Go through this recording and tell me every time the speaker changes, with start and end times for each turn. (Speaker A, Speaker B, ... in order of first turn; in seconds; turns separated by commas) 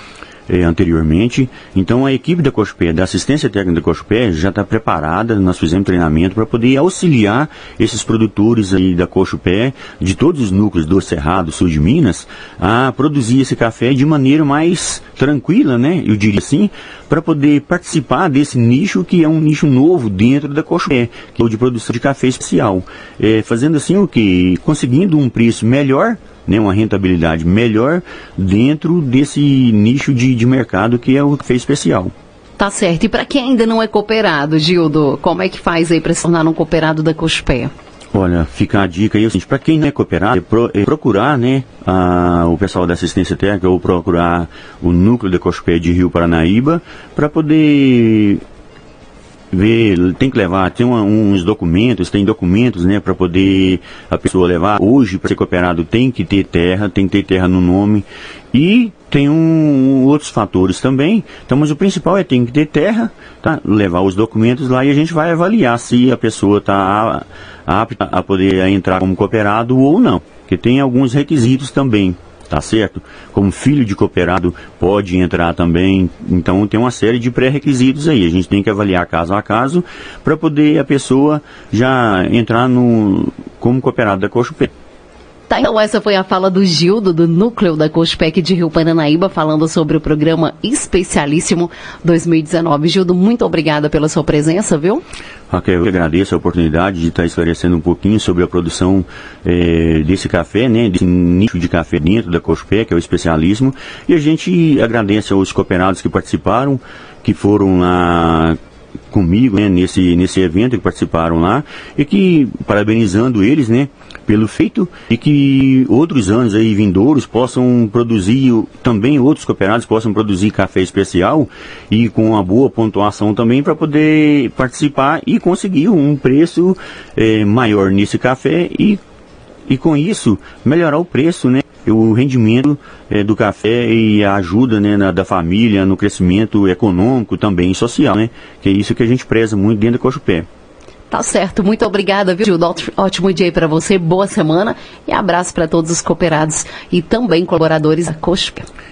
Speaker A: 0.5-32.1, Speaker B: 32.6-37.7, Speaker A: 38.1-48.4, Speaker A: 49.5-84.7, Speaker B: 85.5-95.0, Speaker A: 95.5-108.6, Speaker A: 109.1-129.0, Speaker A: 129.7-140.5, Speaker B: 141.1-148.7